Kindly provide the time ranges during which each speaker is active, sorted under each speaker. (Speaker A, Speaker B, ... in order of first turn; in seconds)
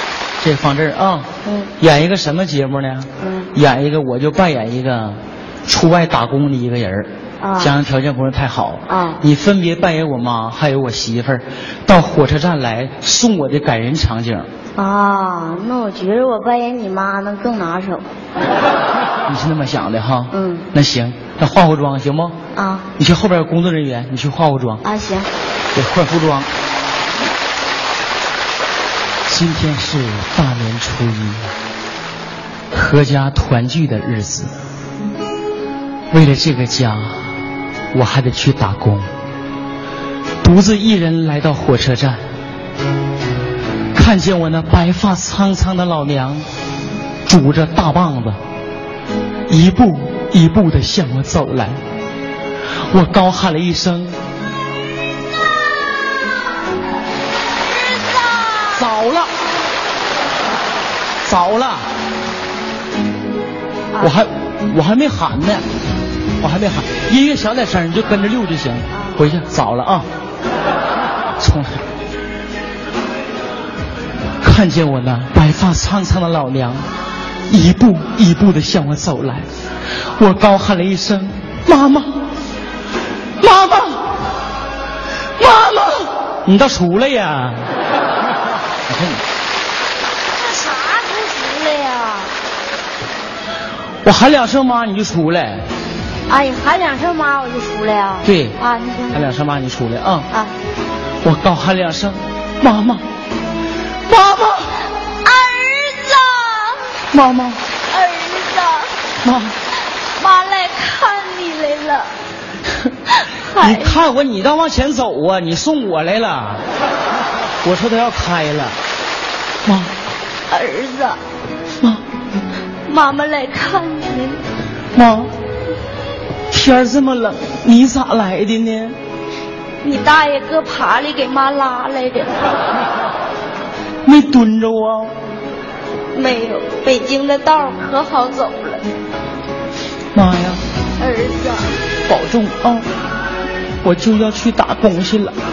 Speaker A: 0.4-14.5, 19.2-22.4, 23.0-24.8, 25.7-26.5, 29.2-31.5, 32.7-34.5, 36.1-37.2, 37.9-39.1, 40.4-42.2, 43.9-46.5, 47.2-48.4, 49.5-51.8, 52.9-54.2, 58.7-59.3, 61.2-61.9, 64.0-65.7, 66.4-70.1, 71.4-71.8, 74.4-76.9, 77.5-79.5, 80.0-82.2, 83.4-84.1, 85.4-85.8, 86.4-87.7, 88.9-89.2, 94.0-95.7, 98.2-98.6, 99.1-100.3, 101.2-103.0, 104.1-104.6, 107.1-107.6, 109.2-109.5, 113.6-116.6, 117.6-118.8, 119.6-119.9, 124.9-125.3, 126.5-129.0, 134.0-135.1, 140.1-140.6, 142.1-142.8, 143.8-145.3
Speaker B: 1.4-1.7, 3.2-3.5, 7.4-7.7, 8.9-9.2, 14.8-18.1, 20.3-20.7, 22.5-22.9, 24.8-25.3, 57.7-58.8, 68.9-69.2, 85.5-85.9, 90.3-92.3, 96.3-99.3, 105.0-106.8, 107.9-108.9, 110.2-112.1, 113.1-114.0, 120.5-121.2, 122.8-124.4, 129.8-132.4, 136.1-138.8, 141.0-141.7